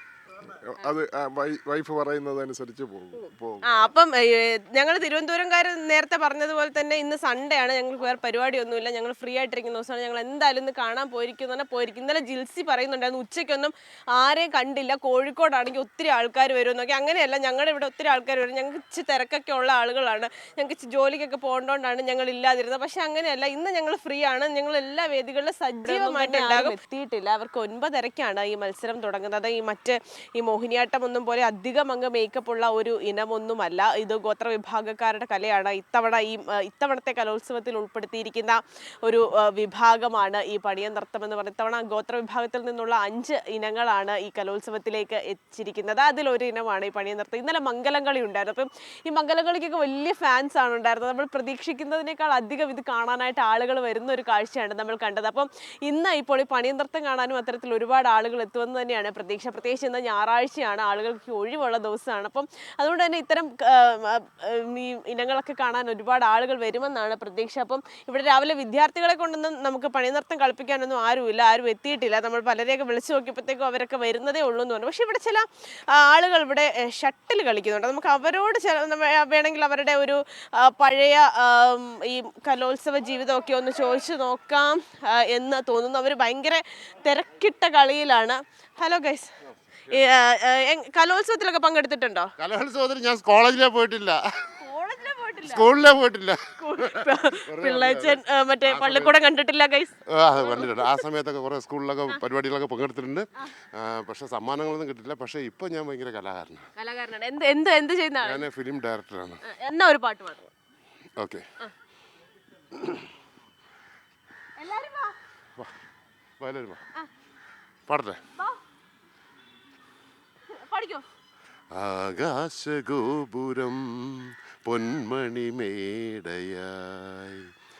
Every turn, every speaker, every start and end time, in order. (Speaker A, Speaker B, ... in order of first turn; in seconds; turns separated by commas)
Speaker A: 0.5-3.7, Speaker B: 3.7-89.3, Speaker B: 89.9-92.3, Speaker C: 92.4-94.2, Speaker B: 94.6-95.7, Speaker C: 95.4-99.1, Speaker B: 96.6-101.0, Speaker C: 100.1-106.6, Speaker B: 106.8-108.5, Speaker C: 108.2-109.4, Speaker B: 109.4-110.5, Speaker C: 111.2-111.4, Speaker C: 112.7-113.1, Speaker B: 114.6-115.1, Speaker C: 116.4-116.8, Speaker C: 117.9-118.2, Speaker B: 120.5-121.0, Speaker C: 121.7-127.4